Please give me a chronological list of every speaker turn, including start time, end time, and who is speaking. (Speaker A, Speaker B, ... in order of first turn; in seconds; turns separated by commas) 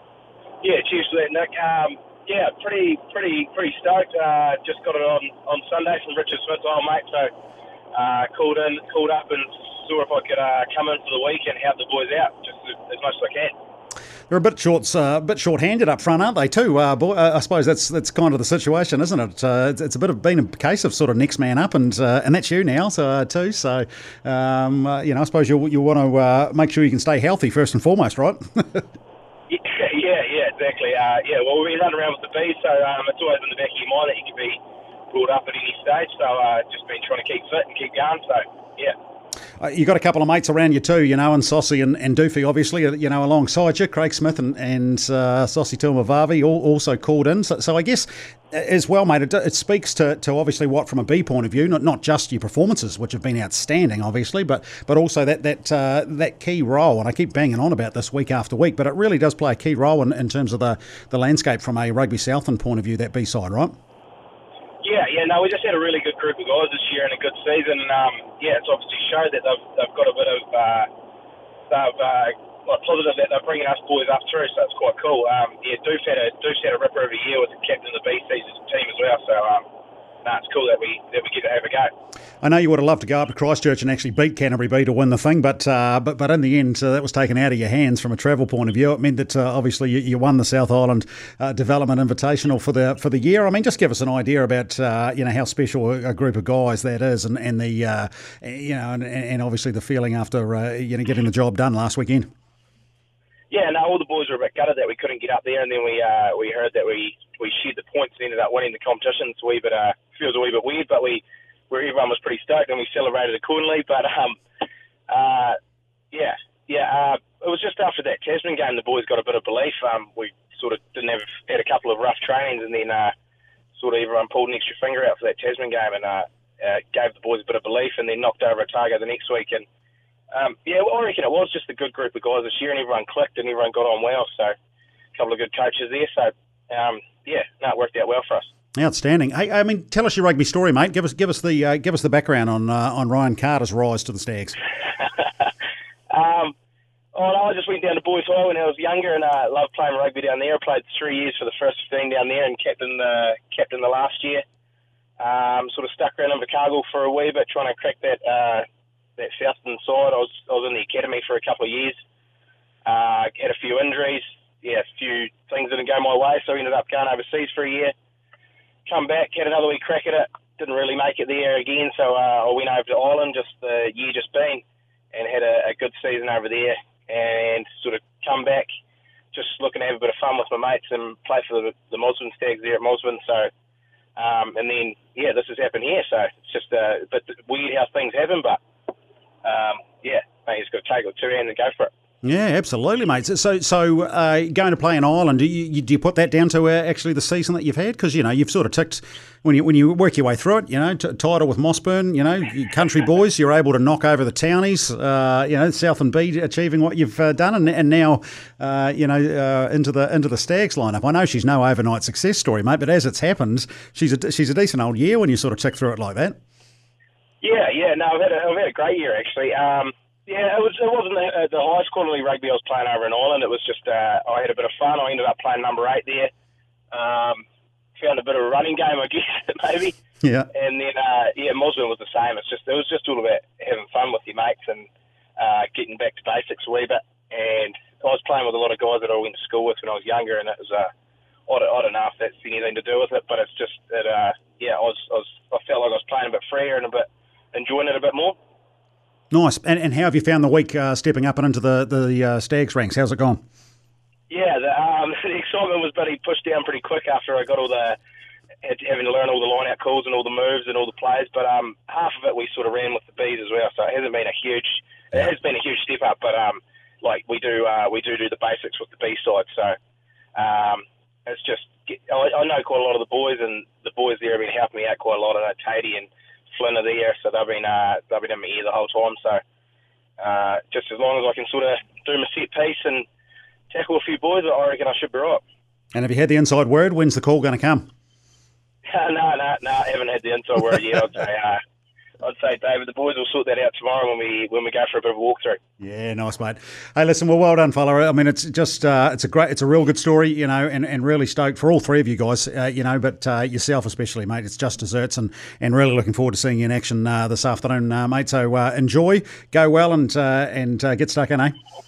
Speaker A: 0.6-7.3, Speaker A: 7.9-13.5, Speaker B: 14.3-28.9, Speaker A: 29.5-34.6, Speaker A: 35.1-39.0, Speaker B: 39.6-63.8, Speaker A: 64.8-70.9, Speaker A: 71.7-79.7, Speaker A: 80.2-81.9, Speaker B: 82.4-102.3, Speaker A: 103.5-114.4, Speaker A: 115.1-115.6, Speaker A: 116.1-123.1, Speaker A: 123.8-129.7, Speaker A: 130.3-134.6, Speaker A: 135.2-138.5, Speaker B: 138.8-144.6, Speaker A: 145.0-145.5, Speaker A: 146.1-146.6, Speaker A: 147.1-154.4, Speaker A: 155.2-158.7, Speaker A: 159.2-162.0, Speaker A: 162.8-167.9, Speaker A: 168.9-178.7, Speaker A: 179.3-183.5, Speaker A: 184.2-188.6, Speaker A: 189.4-191.9, Speaker B: 192.2-216.4, Speaker A: 217.4-226.3, Speaker A: 226.9-227.4, Speaker A: 228.0-230.0, Speaker B: 230.2-230.5, Speaker A: 230.5-240.9, Speaker A: 241.5-248.4, Speaker B: 249.3-253.4, Speaker A: 254.3-258.0, Speaker A: 258.6-269.8, Speaker A: 270.4-279.4, Speaker A: 280.2-283.1, Speaker A: 283.7-285.4, Speaker B: 285.9-287.9, Speaker A: 288.9-291.6, Speaker A: 292.2-295.6, Speaker B: 295.8-311.6